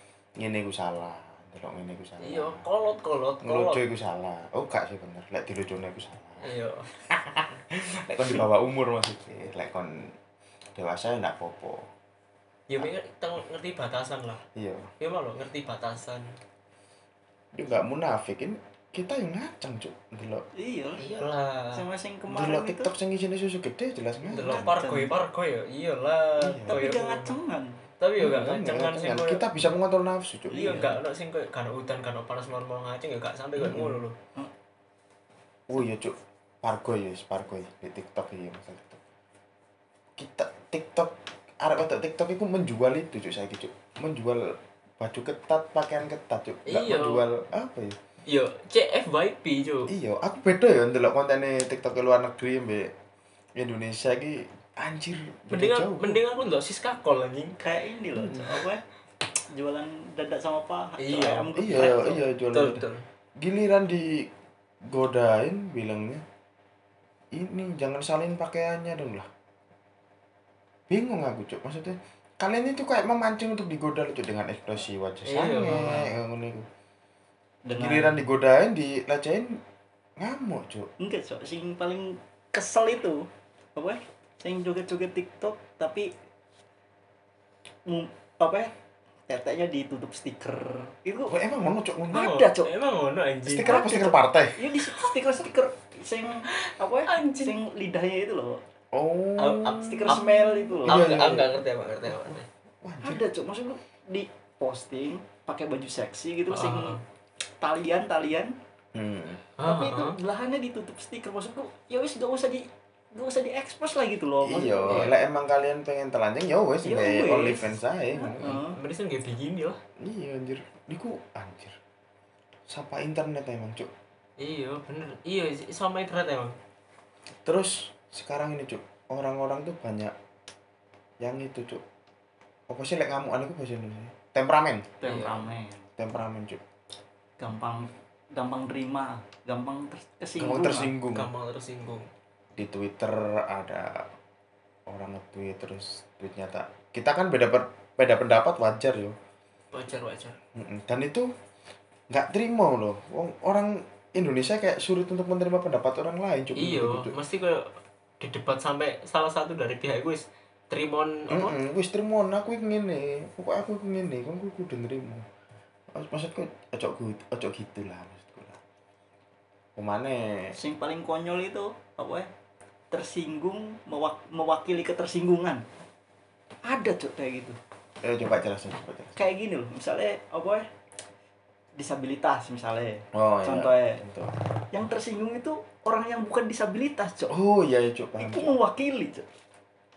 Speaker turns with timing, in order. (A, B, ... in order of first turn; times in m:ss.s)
0:00.4-0:02.6 A
0:02.2-0:03.8 B
0:03.4-0:06.5 A
0:06.4-0:06.9 B
0:07.0-0:10.1 A
0:10.8-0:11.9 A
0:12.7-0:14.4 B
0:14.6-0:14.9 A
0:15.0-0:16.3 B
0:17.5-0:20.4 A
0:20.6-0:21.1 C
0:21.0-0:21.8 B
0:21.7-0:22.9 C
0:22.3-0:24.8 A
0:24.3-0:27.4 B
0:24.4-0:25.2 C
0:26.4-0:26.8 A
0:26.7-0:27.8 C
0:28.0-0:29.4 B
0:28.2-0:30.9 A
0:30.5-0:31.0 C
0:30.5-0:34.2 B
0:33.6-0:34.0 A
0:35.7-0:39.0 A
0:40.2-0:48.0 A
0:46.7-0:47.2 B
0:48.3-0:49.9 B
0:49.9-0:52.9 A
0:53.6-0:56.2 A
0:55.5-0:57.6 B
0:57.6-0:58.8 C
0:58.2-0:58.6 A
0:59.5-1:02.2 C
1:01.0-1:03.0 B
1:01.6-1:02.8 A
1:03.4-1:04.3 A
1:04.9-1:06.2 A
1:07.3-1:09.3 A
1:10.9-1:16.7 A
1:15.3-1:16.1 B
1:15.5-1:16.0 C
1:17.6-1:18.2 C
1:17.8-1:19.6 A
1:20.2-1:20.9 A
1:21.0-1:26.1 C
1:27.9-1:28.7 C
1:29.3-1:31.4 C
1:31.3-1:32.3 A
1:32.1-1:32.7 C
1:32.1-1:33.9 B
1:33.4-1:34.6 A
1:33.6-1:38.6 C
1:36.5-1:37.6 B
1:38.9-1:40.2 A
1:39.4-1:42.5 B
1:39.8-1:41.2 C
1:40.8-1:41.6 A
1:42.8-1:43.3 A
1:43.0-1:47.0 C
1:46.5-1:47.0 B
1:47.6-1:48.6 C
1:48.9-1:49.4 A
1:49.6-1:50.2 B
1:49.6-1:55.1 C
1:54.4-1:58.6 A
1:54.9-1:55.1 B
1:56.8-1:58.8 C
1:58.6-1:59.8 B
2:00.0-2:01.8 A
2:02.7-2:03.9 A
2:04.4-2:06.6 B
2:07.4-2:10.1 A
2:11.2-2:11.8 A
2:12.7-2:15.0 A
2:15.0-2:15.9 C
2:15.0-2:15.5 B
2:16.0-2:16.6 A
2:17.4-2:20.9 C
2:20.4-2:21.3 A
2:21.1-2:22.1 B
2:22.6-2:24.1 A
2:24.9-2:29.1 A
2:29.7-2:30.4 B
2:30.6-2:31.3 A
2:32.1-2:37.1 A
2:36.6-2:41.6 B
2:41.3-2:45.3 A
2:45.9-2:48.6 A
2:49.8-2:50.6 A
2:50.6-2:52.3 C
2:52.9-2:55.6 C
2:56.6-2:57.6 C
2:58.0-2:59.1 A
2:59.2-3:00.6 C
3:01.8-3:04.0 C
3:03.1-3:04.3 A
3:04.7-3:07.4 C
3:07.3-3:08.6 A
3:08.2-3:09.3 C